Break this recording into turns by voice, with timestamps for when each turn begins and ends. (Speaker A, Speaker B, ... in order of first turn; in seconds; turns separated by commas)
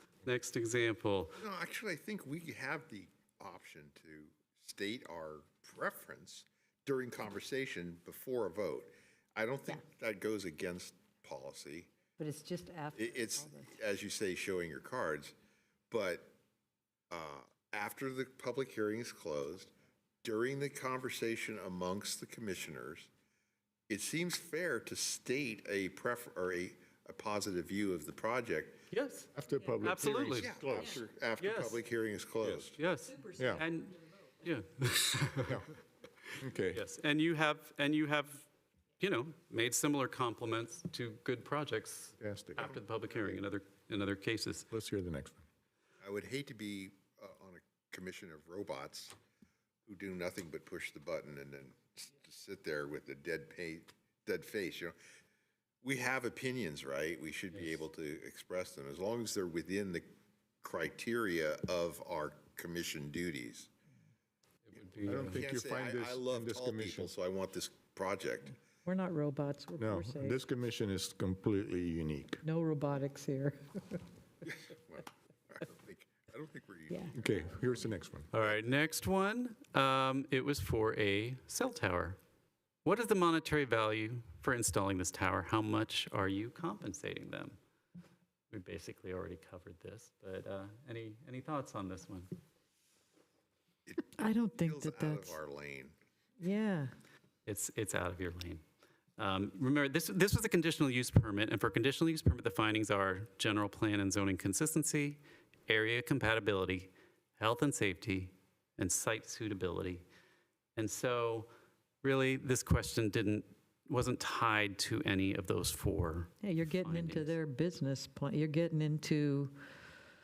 Speaker A: 0.2-1.4, Speaker B: 1.4-11.9, Speaker C: 12.2-13.7, Speaker B: 12.9-15.3, Speaker B: 15.9-16.3, Speaker B: 17.1-23.1, Speaker B: 23.9-28.8, Speaker A: 28.9-29.3, Speaker D: 29.3-31.1, Speaker A: 29.8-30.5, Speaker B: 30.4-32.8, Speaker A: 31.4-31.8, Speaker A: 32.8-35.6, Speaker D: 33.4-33.6, Speaker D: 36.4-36.8, Speaker A: 36.7-38.5, Speaker A: 39.0-44.7, Speaker D: 42.2-42.7, Speaker B: 42.6-43.4, Speaker D: 44.7-45.4, Speaker B: 46.0-49.1, Speaker B: 49.9-55.0, Speaker B: 55.8-60.1, Speaker A: 57.5-57.8, Speaker B: 60.6-63.7, Speaker A: 64.7-65.4, Speaker B: 65.0-68.6, Speaker D: 65.0-67.1, Speaker C: 68.8-70.4, Speaker D: 69.8-72.4, Speaker C: 72.4-74.0, Speaker B: 74.4-77.4, Speaker D: 77.1-78.3, Speaker A: 78.3-82.2, Speaker A: 82.8-87.6, Speaker A: 88.5-92.3, Speaker B: 93.9-95.9, Speaker C: 94.1-95.3, Speaker C: 96.4-96.9, Speaker A: 97.5-98.6, Speaker A: 99.2-110.0, Speaker A: 110.8-111.5, Speaker A: 112.0-117.3, Speaker C: 116.4-119.5